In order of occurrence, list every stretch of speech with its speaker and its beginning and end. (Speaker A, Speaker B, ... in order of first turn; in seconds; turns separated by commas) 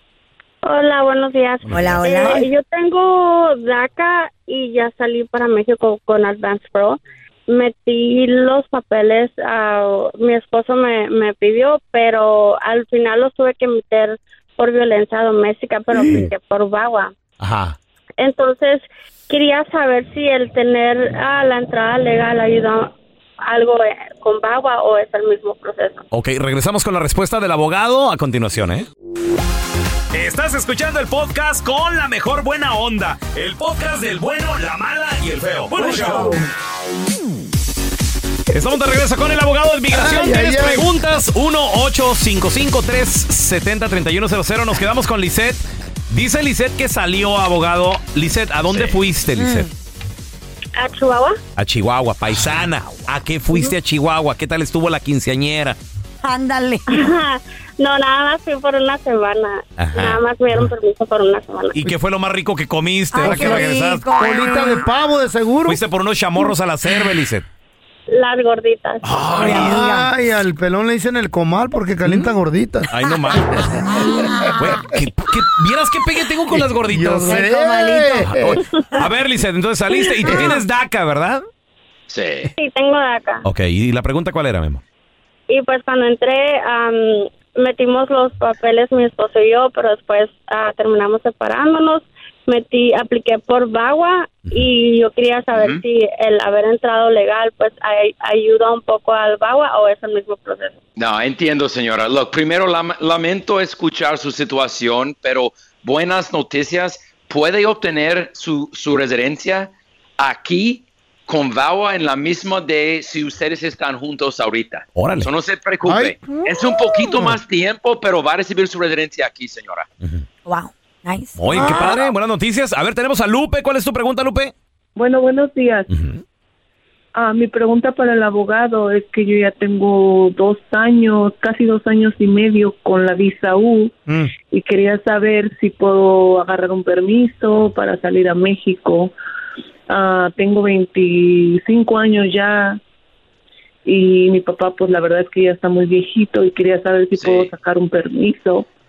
Speaker A: 0.6-17.1, Speaker B: 1.7-2.0, Speaker C: 1.7-2.5, Speaker B: 17.4-17.8, Speaker A: 18.2-26.0, Speaker B: 26.1-28.9, Speaker B: 30.1-36.4, Speaker D: 35.8-36.5, Speaker B: 38.5-49.7, Speaker D: 39.9-40.9, Speaker E: 48.7-49.0, Speaker C: 49.4-49.7, Speaker A: 50.8-51.4, Speaker B: 51.6-55.8, Speaker C: 56.2-56.8, Speaker A: 56.9-61.8, Speaker B: 59.8-60.7, Speaker B: 61.8-64.0, Speaker C: 63.1-64.8, Speaker D: 63.2-65.8, Speaker B: 65.7-67.5, Speaker A: 68.1-69.0, Speaker B: 69.0-69.9, Speaker C: 69.4-70.1, Speaker D: 69.4-72.9, Speaker B: 72.1-72.3, Speaker B: 72.9-73.9, Speaker D: 73.5-74.5, Speaker C: 73.9-74.6, Speaker B: 74.5-77.5, Speaker D: 76.5-78.6, Speaker C: 77.3-78.2, Speaker B: 78.1-81.4, Speaker D: 80.3-80.6, Speaker E: 82.1-82.5, Speaker A: 82.6-83.4, Speaker B: 83.4-84.8, Speaker A: 85.5-100.8, Speaker E: 95.5-95.8, Speaker E: 101.0-119.9, Speaker B: 115.0-115.3, Speaker D: 115.8-117.4, Speaker C: 120.5-122.0, Speaker B: 121.4-124.5, Speaker D: 121.5-122.0, Speaker F: 125.0-125.9, Speaker B: 125.9-126.2, Speaker F: 127.2-133.9, Speaker F: 134.5-139.1, Speaker F: 139.9-142.8, Speaker F: 143.8-148.7, Speaker E: 147.2-147.5